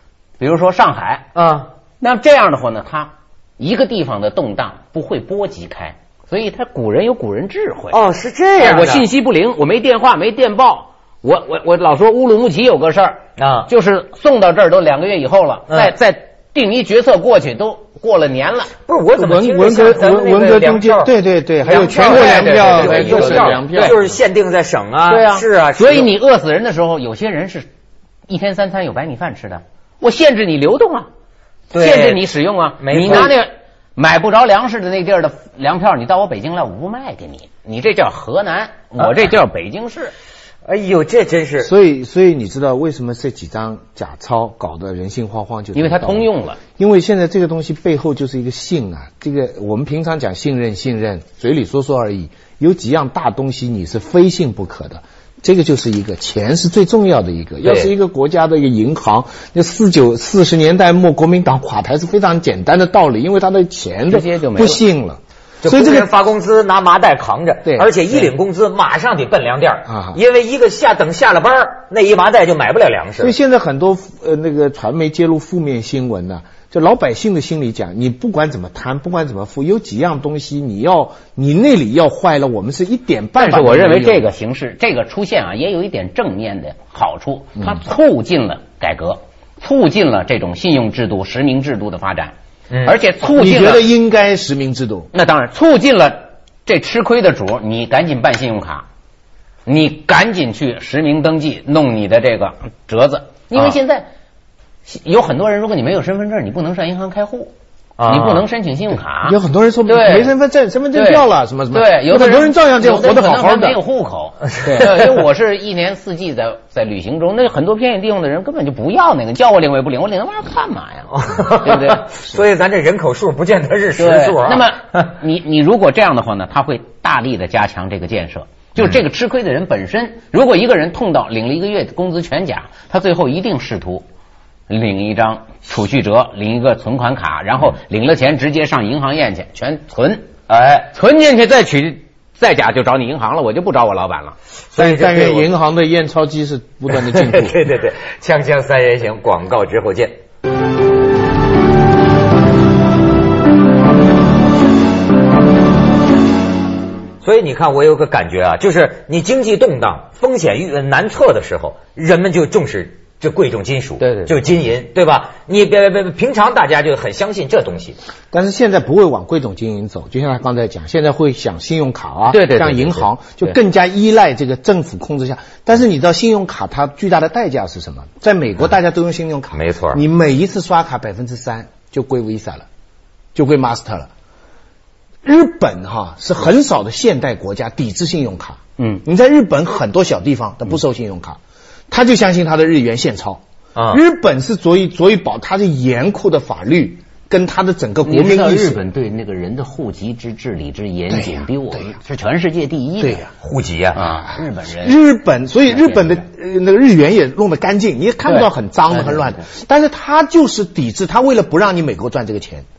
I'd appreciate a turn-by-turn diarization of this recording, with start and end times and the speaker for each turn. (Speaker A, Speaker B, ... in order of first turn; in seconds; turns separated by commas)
Speaker A: 0.4-1.3, Speaker B: 1.4-1.7, Speaker A: 2.0-8.0, Speaker B: 7.9-9.1, Speaker A: 8.6-18.7, Speaker B: 13.4-13.7, Speaker B: 18.9-26.1, Speaker C: 19.1-24.1, Speaker A: 21.7-24.0, Speaker A: 25.1-27.7, Speaker A: 28.3-31.1, Speaker B: 31.7-32.3, Speaker A: 31.7-40.1, Speaker B: 32.8-33.4, Speaker B: 40.6-41.7, Speaker C: 41.6-66.1, Speaker A: 45.7-46.6, Speaker B: 57.6-57.9, Speaker A: 64.1-64.8, Speaker B: 65.6-73.3, Speaker C: 67.7-67.9, Speaker C: 69.9-70.2, Speaker C: 73.2-84.3, Speaker A: 83.4-93.9, Speaker B: 92.7-93.0, Speaker C: 93.2-95.1, Speaker A: 95.1-98.8, Speaker A: 99.7-104.1, Speaker A: 104.9-107.5, Speaker B: 108.0-108.5, Speaker A: 108.1-110.3, Speaker C: 109.2-113.8, Speaker A: 110.9-122.1, Speaker B: 114.6-115.0, Speaker C: 114.7-114.9, Speaker B: 121.1-125.1, Speaker A: 124.0-134.1, Speaker A: 134.7-140.3, Speaker B: 140.5-140.9, Speaker A: 140.9-144.4, Speaker B: 144.7-145.5, Speaker C: 144.8-147.6, Speaker B: 146.9-150.2, Speaker B: 157.2-168.0, Speaker A: 164.0-164.3, Speaker C: 168.3-182.7, Speaker A: 172.3-173.5, Speaker B: 179.5-180.0, Speaker C: 183.3-184.1, Speaker C: 185.2-191.4, Speaker C: 191.9-198.8, Speaker B: 193.8-194.0, Speaker A: 198.1-203.3, Speaker C: 201.1-201.5, Speaker C: 203.0-203.3, Speaker B: 203.4-204.1, Speaker A: 203.9-205.0, Speaker C: 204.8-212.7, Speaker A: 205.7-206.2, Speaker A: 208.3-209.4